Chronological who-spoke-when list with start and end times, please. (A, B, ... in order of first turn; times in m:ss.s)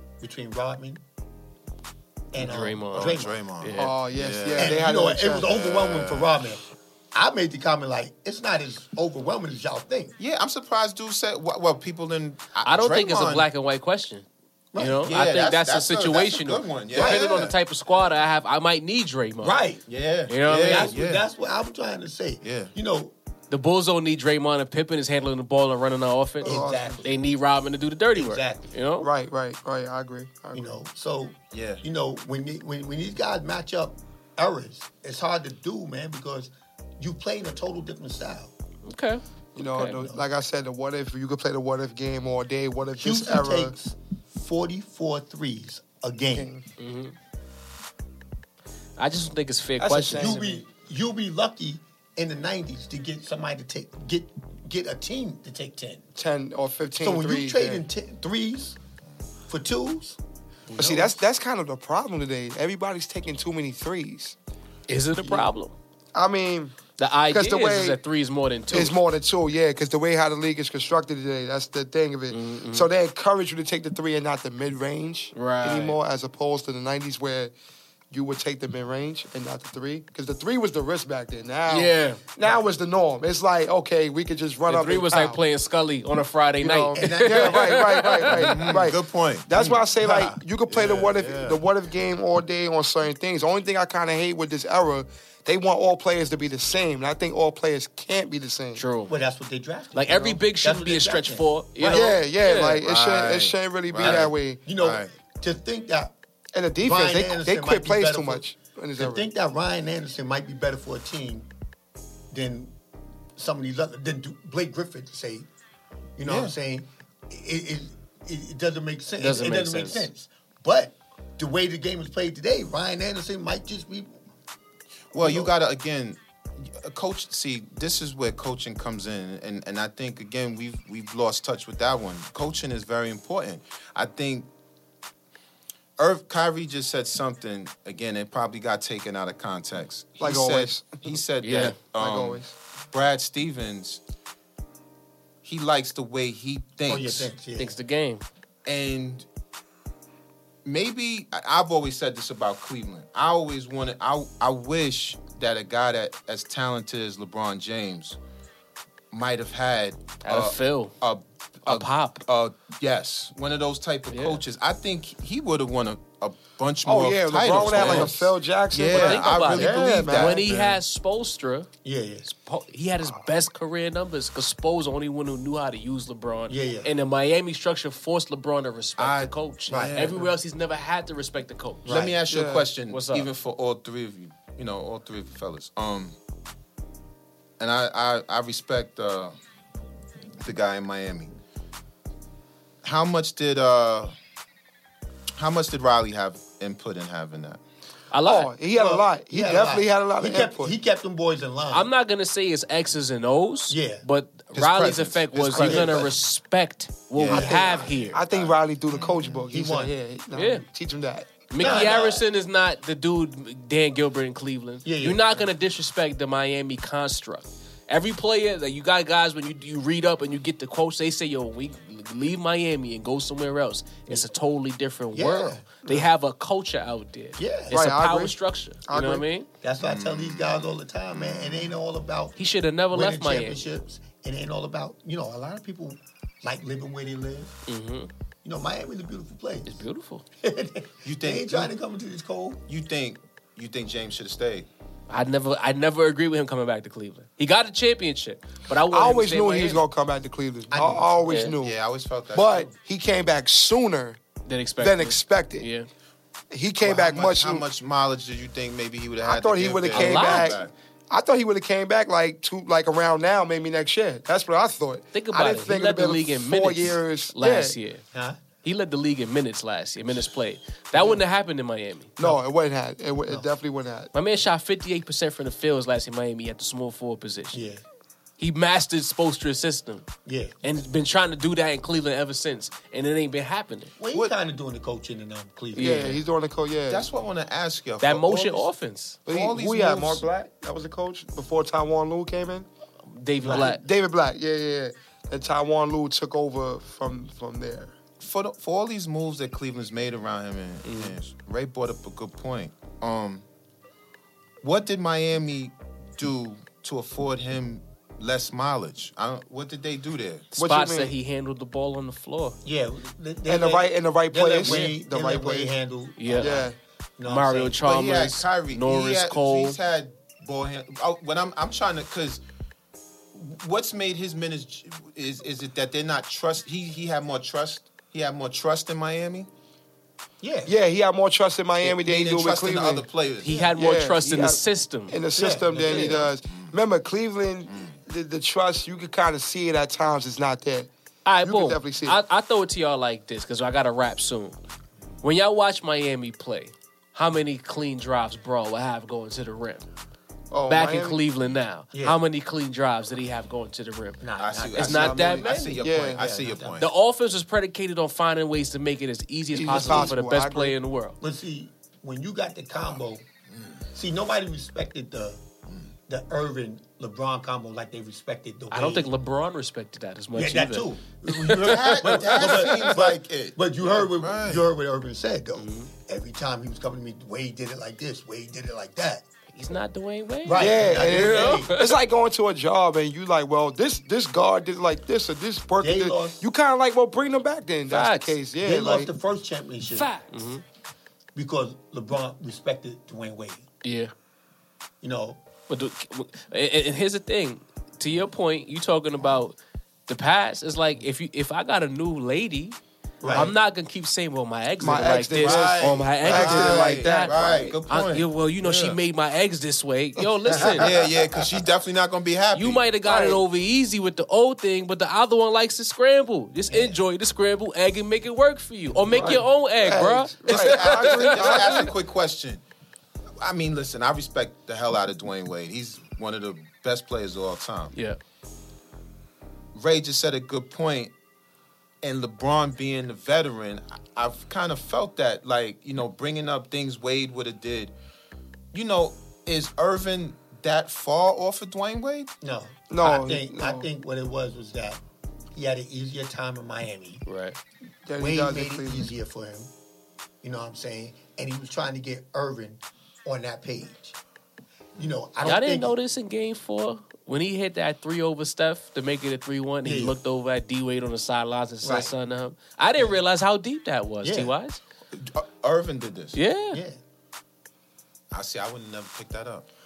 0:00.2-0:01.0 A
0:02.3-0:03.4 A
0:02.4-0:03.9 B
0:02.9-0:04.8 C
0:03.8-0:05.5 D
0:04.6-0:10.2 A
0:05.4-0:06.3 C
0:10.2-0:13.5 C
0:12.6-0:19.6 B
0:14.7-0:15.1 A
0:15.0-0:17.5 C
0:16.9-0:17.5 A
0:19.4-0:19.8 A
0:19.9-0:21.2 C
0:20.3-0:20.9 B
0:20.6-0:23.1 A
0:22.4-0:22.7 C
0:23.5-0:29.1 B
0:26.4-0:27.0 D
0:26.4-0:27.1 A
0:28.1-0:28.7 A
0:29.0-0:30.8 D
0:30.5-0:38.5 A
0:31.5-0:31.8 C
0:38.8-0:39.2 B
0:39.5-0:43.7 D
0:39.8-0:40.2 A
0:43.0-0:46.5 A
0:46.3-0:46.6 D
0:46.8-0:47.1 B
0:49.0-0:50.4 B
0:49.8-0:50.6 D
0:50.1-0:56.1 A
0:56.2-0:57.8 D
0:57.0-0:58.8 A
0:59.5-1:00.2 A
1:00.7-1:01.0 B
1:00.7-1:04.4 D
1:00.8-1:01.0 A
1:04.9-1:05.7 B
1:05.2-1:05.5 D
1:06.1-1:06.8 D
1:07.0-1:09.0 B
1:07.3-1:08.0 D
1:08.7-1:17.5 D
1:12.3-1:12.9 B
1:15.3-1:16.0 B
1:18.1-1:25.4 D
1:21.7-1:22.2 B
1:24.7-1:28.7 B
1:26.6-1:38.8 D
1:27.0-1:28.0 A
1:28.2-1:31.6 C
1:38.7-1:39.1 B
1:39.1-1:41.5 A
1:39.9-1:42.8 B
1:40.1-1:40.4 D
1:41.8-1:44.6 D
1:42.8-1:45.1 C
1:44.0-1:46.1 A
1:46.5-1:49.3 D
1:46.8-1:48.4 A
1:49.0-1:51.5 A
1:52.3-1:52.7 A
1:53.4-1:55.5 A
1:56.2-2:04.1 A
1:56.2-1:56.5 C
1:59.2-2:00.1 B
2:05.1-2:14.5 C
2:05.1-2:05.5 A
2:16.0-2:24.0 C
2:20.2-2:21.0 D
2:21.4-2:21.8 B
2:21.9-2:22.5 D
2:25.4-2:27.3 C
2:26.9-2:27.7 A
2:27.6-2:28.2 B
2:28.6-2:29.2 C
2:30.6-2:38.2 C
2:39.1-2:50.8 C
2:40.2-2:40.9 B
2:41.6-2:42.2 B
2:44.1-2:44.4 B
2:46.8-2:50.5 D
2:47.7-2:48.1 B
2:48.9-2:51.7 B
2:51.8-2:52.3 A
2:52.2-3:01.8 B
2:56.5-2:56.9 A
2:59.0-3:00.3 C
2:59.7-3:00.1 A
3:01.8-3:02.2 A
3:01.8-3:06.2 C
3:02.3-3:02.7 D
3:02.9-3:03.3 B
3:07.6-3:09.3 C
3:10.4-3:11.4 C
3:12.8-3:14.1 C
3:15.4-3:17.6 C
3:18.1-3:18.5 B
3:18.2-3:20.7 D
3:18.7-3:21.9 A
3:21.7-3:28.2 B
3:23.7-3:24.0 A
3:24.5-3:26.1 C
3:25.6-3:26.1 A
3:27.1-3:29.4 C
3:27.3-3:27.9 A
3:27.3-3:31.4 D
3:29.5-3:29.9 A
3:30.3-3:30.6 B
3:31.5-3:49.5 B
3:31.6-3:32.2 A
3:34.8-3:35.4 A
3:45.1-3:46.0 A
3:47.4-3:47.8 A
3:47.7-3:49.2 D
3:49.6-3:52.4 A
3:49.8-3:51.8 C
3:52.4-3:53.6 B
3:52.9-3:57.6 A
3:57.7-3:58.1 B
3:58.4-3:59.8 A
3:59.7-4:00.2 B
4:00.4-4:02.6 A
4:01.0-4:01.7 C
4:02.7-4:04.7 C
4:05.1-4:09.8 B
4:08.9-4:11.8 D
4:10.7-4:11.4 A
4:11.3-4:11.5 B
4:11.6-4:12.7 C
4:12.3-4:14.2 D
4:14.4-4:15.9 B
4:14.8-4:15.7 D
4:16.5-4:17.6 D
4:16.8-4:20.7 C
4:19.2-4:27.8 D
4:19.9-4:20.6 B
4:25.1-4:28.0 B
4:28.1-4:28.4 A
4:28.6-4:32.4 B
4:31.0-4:31.2 A
4:32.2-4:34.1 D
4:34.1-4:37.6 B
4:37.5-4:37.8 A
4:38.4-4:40.1 B
4:40.2-4:40.5 A
4:40.6-4:43.9 B
4:44.0-4:46.1 A
4:45.7-4:46.2 B
4:45.8-4:47.1 D
4:46.9-4:48.7 C
4:48.0-4:49.2 B
4:49.3-4:52.7 D
4:49.3-4:50.2 C
4:53.1-4:53.8 B
4:53.4-4:57.9 D
4:53.4-4:53.8 A
4:58.2-5:03.4 C
5:00.8-5:01.2 B
5:04.6-5:10.4 C
5:10.5-5:12.6 B
5:10.6-5:11.1 D
5:12.6-5:17.8 A
5:13.5-5:15.8 D
5:14.6-5:14.9 B
5:16.2-5:16.6 B
5:16.4-5:16.7 D
5:17.2-5:19.8 B
5:17.8-5:22.4 C
5:23.3-5:29.5 C
5:30.4-5:30.7 A
5:30.6-5:33.0 D
5:31.8-5:33.5 C
5:33.4-5:35.2 B
5:33.4-5:33.7 A
5:33.8-5:40.9 D
5:35.3-5:36.3 A
5:35.7-5:36.2 B
5:41.2-5:44.6 B
5:41.4-5:42.2 D
5:45.2-5:49.8 B
5:50.5-5:51.2 D
5:50.7-5:54.2 B
5:51.9-5:52.2 A
5:54.2-5:56.8 A
5:54.4-5:56.9 C
5:54.8-5:55.7 B
5:54.9-5:56.2 D
5:56.8-6:01.2 B
5:59.5-6:00.8 D
5:59.7-6:00.1 A
6:01.2-6:03.2 A
6:03.9-6:05.4 A
6:06.1-6:09.1 A
6:08.7-6:12.9 B
6:10.3-6:19.2 A
6:11.5-6:14.6 C
6:15.5-6:15.9 B
6:19.5-6:22.0 B
6:20.4-6:21.7 A
6:20.5-6:29.1 D
6:25.8-6:26.4 A
6:27.9-6:28.4 B
6:28.6-6:30.5 A
6:30.1-6:30.6 B
6:31.3-6:33.6 A
6:33.8-6:34.1 B
6:35.0-6:35.4 A
6:35.7-6:39.6 B
6:40.1-6:42.8 B
6:43.2-6:43.5 A
6:43.3-6:47.3 B
6:44.8-6:47.8 D
6:45.4-6:49.0 C
6:47.8-6:50.9 B
6:50.4-6:51.0 D
6:50.6-6:52.8 C
6:52.5-7:01.8 B
6:53.0-6:53.4 D
6:59.0-7:01.9 D
7:00.5-7:02.6 C
7:03.4-7:07.9 C
7:07.9-7:08.2 B
7:09.7-7:11.1 C
7:12.0-7:17.9 C
7:18.7-7:22.3 C
7:22.4-7:25.0 A
7:22.9-7:23.9 D
7:25.5-7:27.2 A
7:27.2-7:27.6 B
7:28.0-7:29.1 D
7:28.2-7:29.7 A
7:30.4-7:34.2 A
7:35.0-7:36.0 A
7:35.4-7:44.8 B
7:39.8-7:40.2 A
7:41.8-7:42.1 A
7:44.2-7:44.5 A
7:45.1-7:46.4 C
7:46.3-7:46.8 B
7:46.7-7:47.0 A
7:48.3-7:49.6 C